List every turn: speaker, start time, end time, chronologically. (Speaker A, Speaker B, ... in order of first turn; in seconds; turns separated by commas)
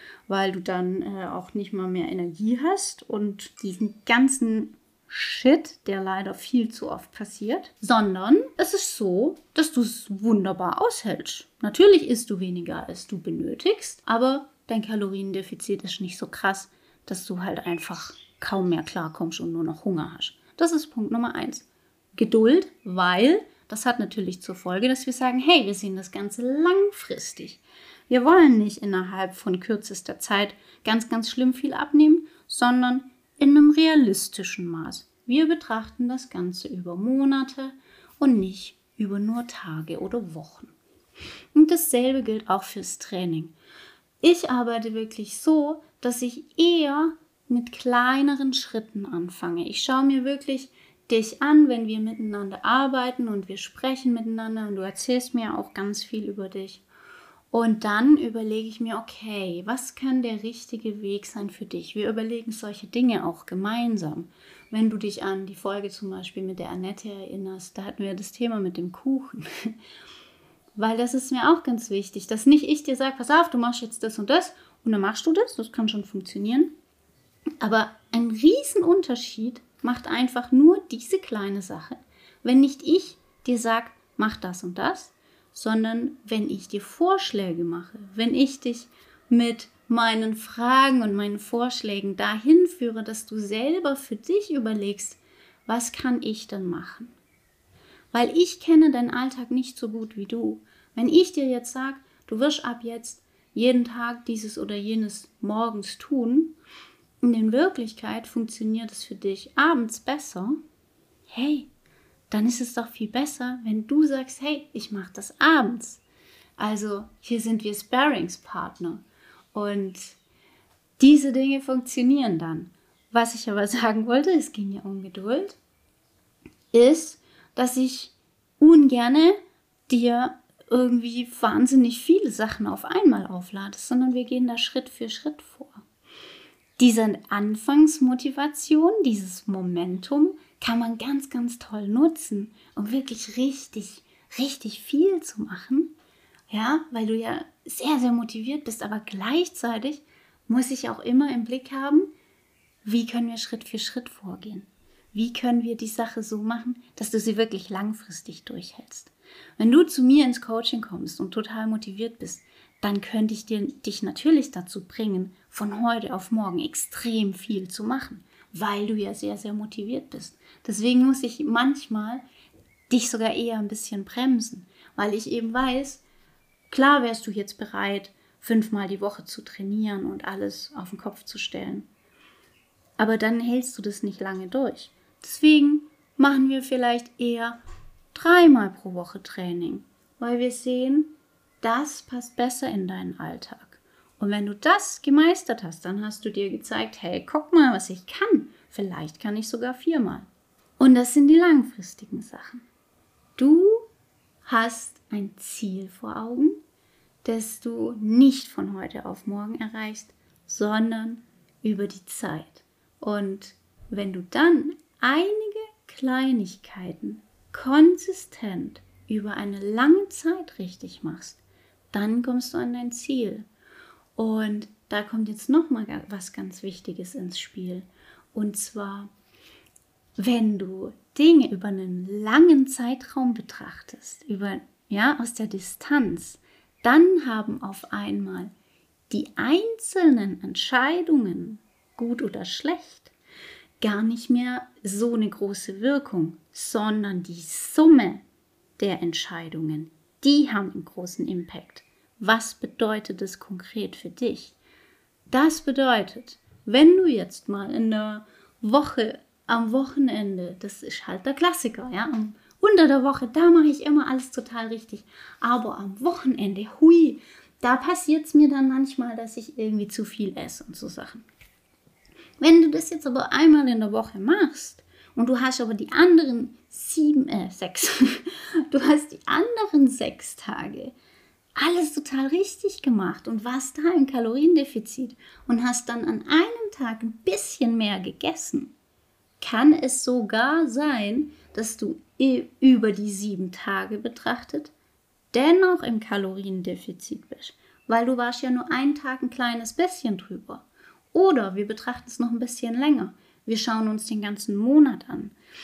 Speaker A: 0.3-40.7, Speaker A: 41.5-43.5, Speaker A: 44.2-56.8, Speaker A: 57.5-69.7, Speaker A: 70.8-76.7, Speaker A: 77.6-97.1, Speaker A: 98.1-106.5, Speaker A: 107.2-110.6, Speaker A: 111.3-111.7, Speaker A: 112.3-116.0, Speaker A: 116.6-120.2, Speaker A: 121.0-125.6, Speaker A: 126.7-129.3, Speaker A: 129.9-135.8, Speaker A: 136.8-145.9, Speaker A: 146.5-152.1, Speaker A: 152.8-172.2, Speaker A: 172.9-176.0, Speaker A: 176.7-181.9, Speaker A: 183.0-187.6, Speaker A: 188.1-200.3, Speaker A: 200.8-202.6, Speaker A: 203.4-203.9, Speaker A: 204.4-206.6, Speaker A: 207.2-221.4, Speaker A: 221.9-223.4, Speaker A: 224.2-229.1, Speaker A: 230.2-238.5, Speaker A: 239.1-243.1, Speaker A: 243.8-248.2, Speaker A: 248.8-254.6, Speaker A: 255.3-271.2, Speaker A: 272.4-280.9, Speaker A: 281.6-288.7, Speaker A: 289.4-294.7, Speaker A: 295.3-305.3